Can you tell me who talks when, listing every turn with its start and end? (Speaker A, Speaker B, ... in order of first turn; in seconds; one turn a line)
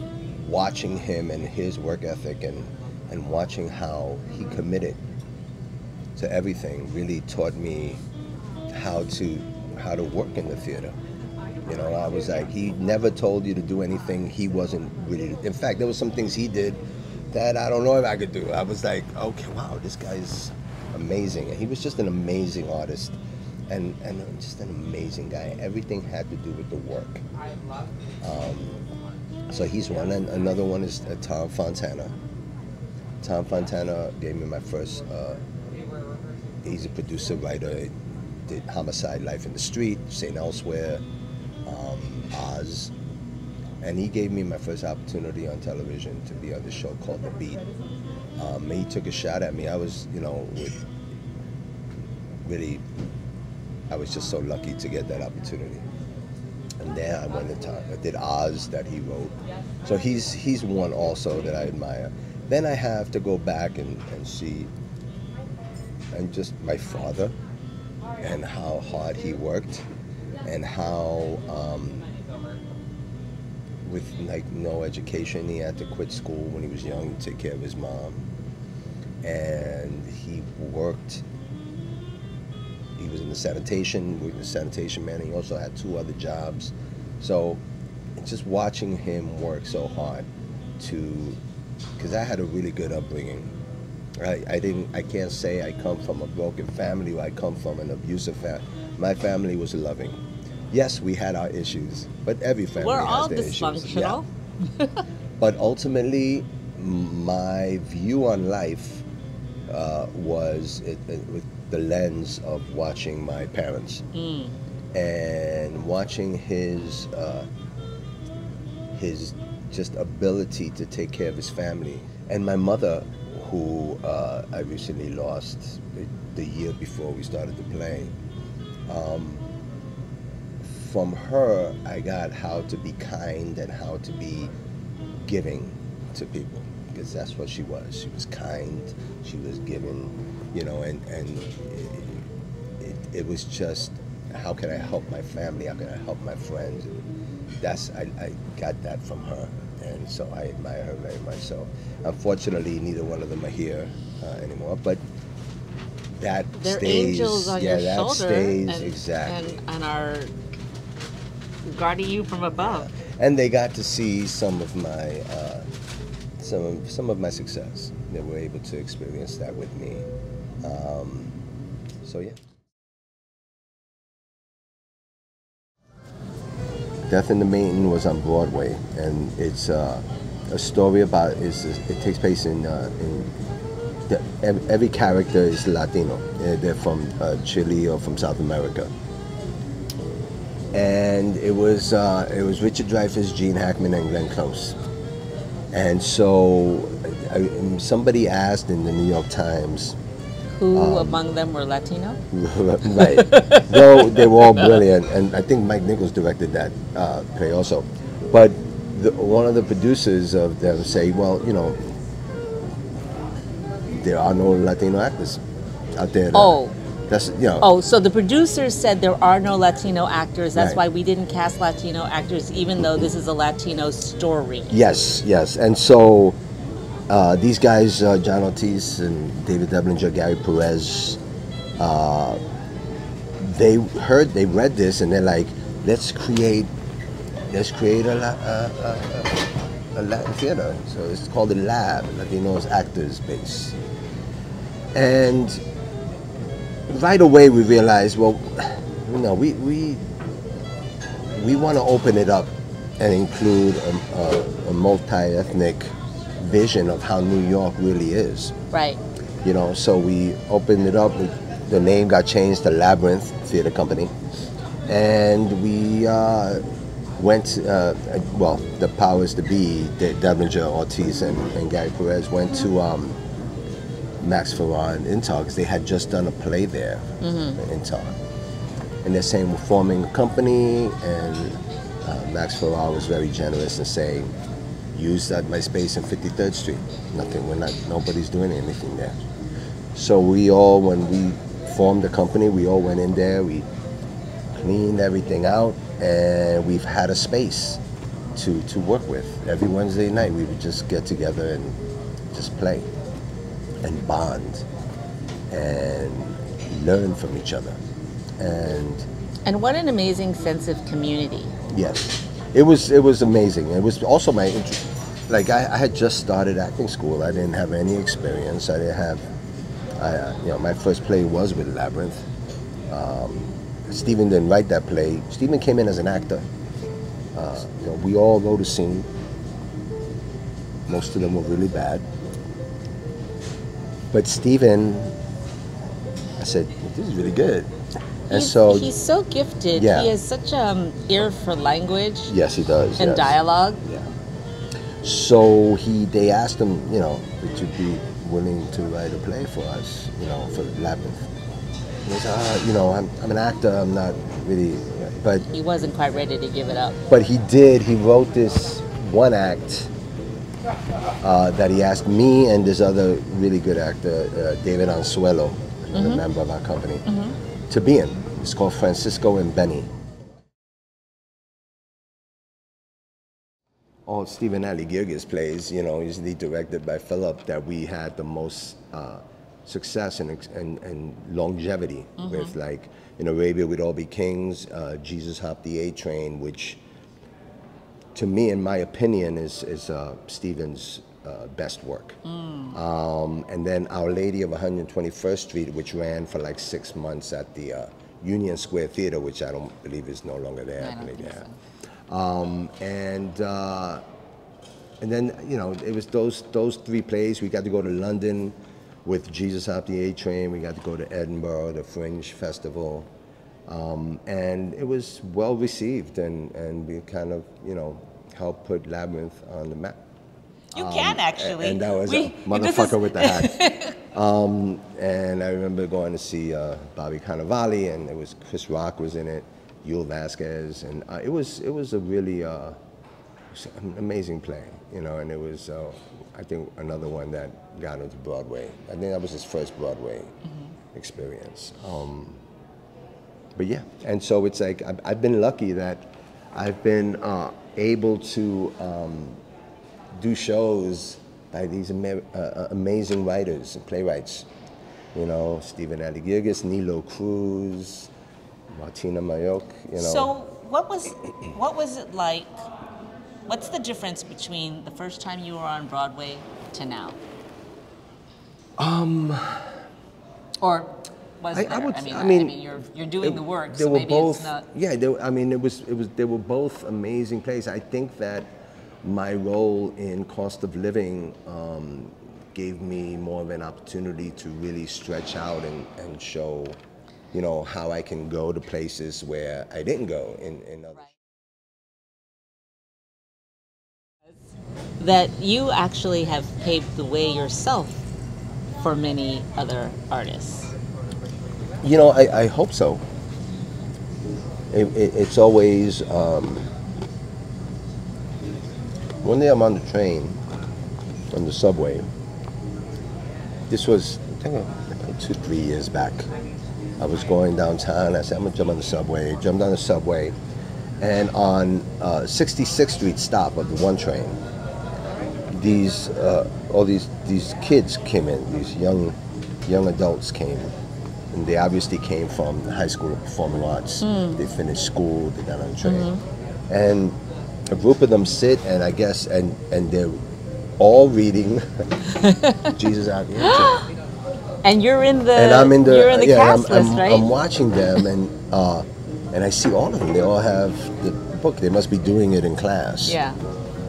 Speaker A: 0.3-5.0
Speaker A: 6.2-8.0
Speaker A: 8.7-11.0
Speaker A: 11.6-23.2
Speaker A: 23.7-27.2
Speaker A: 28.2-28.8
Speaker A: 29.5-32.1
Speaker A: 33.2-35.4
Speaker A: 36.6-41.0
Speaker A: 41.6-42.9
Speaker A: 43.8-47.6
Speaker A: 48.4-50.8
Speaker A: 52.4-52.9
Speaker A: 53.9-55.9
Speaker A: 56.8-64.7
Speaker A: 66.1-67.4
Speaker A: 68.2-69.9
Speaker A: 70.4-72.1
Speaker A: 73.8-78.3
Speaker A: 79.2-81.3
Speaker A: 83.0-87.6
Speaker A: 88.2-90.3
Speaker A: 90.8-91.4
Speaker A: 92.0-93.5
Speaker A: 94.2-104.2
Speaker B: 102.8-105.0
Speaker A: 105.4-109.0
Speaker A: 109.7-114.1
Speaker B: 114.1-114.5
Speaker A: 114.9-117.5
Speaker A: 118.9-128.2
Speaker A: 128.9-129.5
Speaker A: 130.6-134.5
Speaker A: 135.2-142.3
Speaker A: 142.8-147.0
Speaker A: 147.6-155.0
Speaker A: 156.2-159.5
Speaker B: 156.6-160.3
Speaker B: 161.6-162.9
Speaker A: 162.9-165.7
Speaker A: 166.4-170.1
Speaker A: 170.6-171.4
Speaker A: 172.0-172.4
Speaker A: 177.1-183.3
Speaker A: 184.1-188.9
Speaker A: 190.7-194.8
Speaker A: 195.7-200.0
Speaker B: 200.6-202.2
Speaker A: 200.7-201.2
Speaker A: 202.3-211.8
Speaker B: 202.9-204.8
Speaker A: 213.9-215.4
Speaker A: 215.9-217.7
Speaker B: 216.3-216.8
Speaker B: 217.6-224.8
Speaker A: 220.6-220.8
Speaker A: 222.8-223.1
Speaker A: 224.7-226.4
Speaker A: 227.1-231.2
Speaker A: 231.8-232.4
Speaker A: 233.4-236.7
Speaker A: 237.5-243.8
Speaker A: 244.9-245.6
Speaker A: 246.9-250.1
Speaker A: 251.3-258.6
Speaker B: 258.7-259.0
Speaker A: 259.4-264.1
Speaker A: 264.9-266.6
Speaker A: 267.2-273.2
Speaker A: 274.2-278.2
Speaker B: 277.2-277.6
Speaker A: 279.0-284.3
Speaker A: 284.9-289.2
Speaker A: 289.9-293.7
Speaker A: 294.5-297.8
Speaker A: 298.4-302.9
Speaker A: 303.8-304.7
Speaker A: 305.5-307.8
Speaker A: 308.4-309.1
Speaker B: 309.5-311.6
Speaker A: 311.7-319.3
Speaker A: 320.0-322.3
Speaker A: 322.9-326.5
Speaker A: 327.3-329.1
Speaker A: 330.9-332.1
Speaker A: 334.1-335.2
Speaker A: 336.4-337.7
Speaker A: 338.3-338.9
Speaker B: 338.3-342.3
Speaker A: 339.7-340.1
Speaker A: 342.3-344.1
Speaker B: 343.0-343.8
Speaker A: 345.0-351.3
Speaker A: 352.1-355.5
Speaker B: 355.5-357.0
Speaker A: 357.1-359.9
Speaker A: 361.2-367.1
Speaker B: 365.9-366.2
Speaker B: 367.1-367.4
Speaker A: 367.7-369.9
Speaker A: 374.1-386.8
Speaker B: 382.2-382.5
Speaker A: 388.1-392.2
Speaker B: 392.2-392.8
Speaker A: 392.7-401.5
Speaker B: 400.8-401.6
Speaker A: 402.1-404.0
Speaker A: 405.0-413.1
Speaker A: 413.7-420.0
Speaker A: 420.7-423.6
Speaker B: 420.7-424.0
Speaker A: 424.1-432.8
Speaker A: 433.5-440.4
Speaker B: 440.5-440.7
Speaker A: 440.9-442.4
Speaker A: 443.6-449.4
Speaker A: 450.1-454.5
Speaker A: 455.1-458.1
Speaker A: 458.7-460.3
Speaker B: 460.0-462.5
Speaker B: 463.5-467.2
Speaker A: 468.8-469.7
Speaker B: 470.6-474.7
Speaker A: 471.5-472.7
Speaker A: 473.2-486.8
Speaker A: 487.3-491.1
Speaker B: 495.0-498.1
Speaker B: 498.8-500.8
Speaker A: 501.8-503.0
Speaker A: 504.7-506.7
Speaker A: 509.2-510.4
Speaker A: 511.3-512.1
Speaker A: 513.7-516.3
Speaker A: 517.0-520.4
Speaker A: 521.0-524.4
Speaker A: 525.5-530.8
Speaker A: 531.3-536.1
Speaker B: 534.0-534.4
Speaker B: 535.8-536.2
Speaker A: 536.7-540.2
Speaker A: 540.8-541.9
Speaker B: 542.1-542.8
Speaker A: 542.8-543.8
Speaker B: 543.4-543.9
Speaker B: 544.6-547.3
Speaker A: 545.4-553.2
Speaker B: 553.0-553.4